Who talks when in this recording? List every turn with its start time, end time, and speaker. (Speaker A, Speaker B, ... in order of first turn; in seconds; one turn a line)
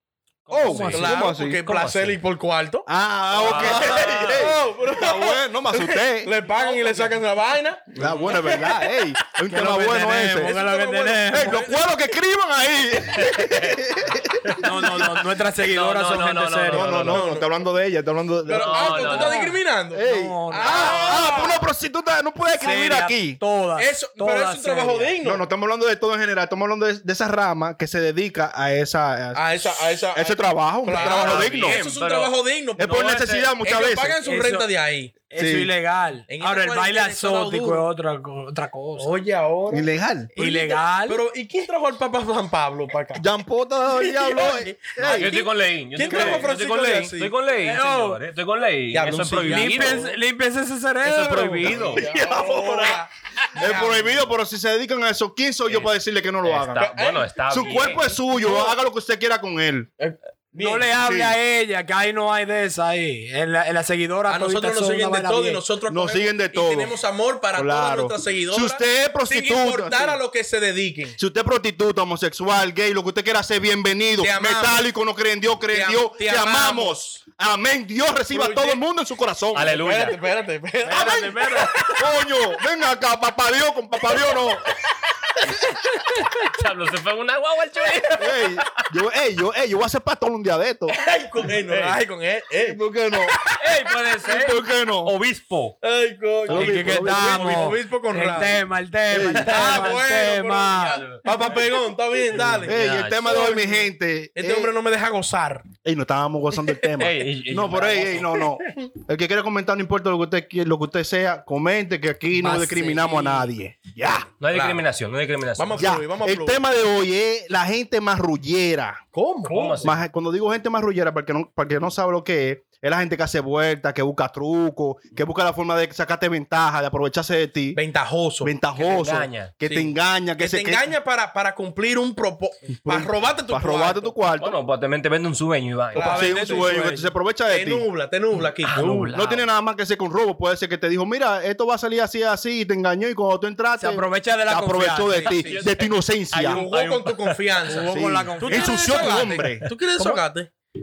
Speaker A: 0.5-1.1
Speaker B: 0.5-1.6
Speaker C: 0.6-1.2
Speaker D: 0.9-8.9
Speaker A: 1.6-2.2
Speaker B: 2.9-6.3
Speaker A: 3.4-4.5
Speaker A: 6.4-7.2
Speaker B: 7.9-15.1
Speaker A: 8.0-8.7
Speaker C: 9.5-11.7
Speaker D: 10.4-11.8
Speaker A: 13.2-13.8
Speaker A: 14.4-17.3
Speaker C: 14.6-16.9
Speaker B: 16.7-19.2
Speaker D: 17.0-17.5
Speaker D: 18.4-21.6
Speaker A: 18.5-19.5
Speaker C: 19.0-21.4
Speaker B: 19.9-23.4
Speaker C: 22.5-25.1
Speaker D: 23.8-25.4
Speaker B: 25.2-29.4
Speaker D: 29.3-35.1
Speaker B: 30.1-31.8
Speaker A: 30.9-33.5
Speaker B: 32.8-34.2
Speaker C: 34.2-34.7
Speaker C: 35.3-39.1
Speaker B: 35.4-35.7
Speaker D: 36.3-37.9
Speaker D: 39.0-43.2
Speaker B: 39.7-40.3
Speaker C: 40.4-41.2
Speaker B: 43.1-45.5
Speaker D: 44.0-47.3
Speaker A: 45.0-50.1
Speaker B: 46.1-46.5
Speaker C: 47.6-48.2
Speaker D: 48.9-50.1
Speaker C: 49.5-51.8
Speaker A: 51.0-53.0
Speaker D: 51.6-54.2
Speaker B: 51.9-53.0
Speaker B: 53.5-56.9
Speaker A: 56.4-58.1
Speaker D: 56.8-58.8
Speaker B: 57.5-59.9
Speaker D: 60.0-60.9
Speaker C: 60.5-65.6
Speaker B: 61.0-61.4
Speaker D: 64.3-71.2
Speaker B: 65.9-67.0
Speaker B: 67.5-70.2
Speaker B: 71.2-79.7
Speaker D: 74.2-74.8
Speaker D: 75.7-77.1
Speaker D: 78.3-78.8
Speaker A: 79.5-80.2
Speaker D: 79.6-82.0
Speaker C: 80.8-81.7
Speaker B: 81.9-84.6
Speaker A: 86.3-88.9
Speaker B: 88.2-90.9
Speaker D: 90.9-93.7
Speaker A: 91.6-92.0
Speaker B: 92.6-93.4
Speaker A: 93.5-95.8
Speaker B: 94.2-95.1
Speaker D: 95.8-98.6
Speaker B: 96.5-97.6
Speaker A: 96.5-97.7
Speaker C: 96.5-101.0
Speaker B: 99.1-99.9
Speaker D: 99.4-102.7
Speaker A: 100.9-101.7
Speaker A: 102.3-103.5
Speaker B: 102.6-104.7
Speaker D: 103.3-105.7
Speaker B: 105.8-114.3
Speaker A: 107.0-108.5
Speaker C: 112.4-113.4
Speaker D: 112.7-113.1
Speaker A: 114.4-115.9
Speaker D: 114.5-114.8
Speaker D: 115.6-116.6
Speaker B: 115.8-119.0
Speaker D: 119.1-119.9
Speaker A: 119.5-120.0
Speaker B: 119.8-127.8
Speaker D: 127.7-128.5
Speaker B: 128.4-130.9
Speaker A: 128.8-129.5
Speaker D: 129.7-134.2
Speaker B: 132.8-134.6
Speaker A: 134.4-136.3
Speaker D: 135.9-136.7
Speaker C: 136.0-137.1
Speaker B: 136.0-137.8
Speaker D: 137.5-139.1
Speaker A: 138.6-139.4
Speaker B: 139.1-146.6
Speaker C: 143.8-145.3
Speaker D: 145.1-145.5
Speaker A: 145.2-147.3
Speaker D: 146.3-150.5
Speaker C: 147.7-148.8
Speaker B: 147.9-149.7
Speaker C: 150.0-150.2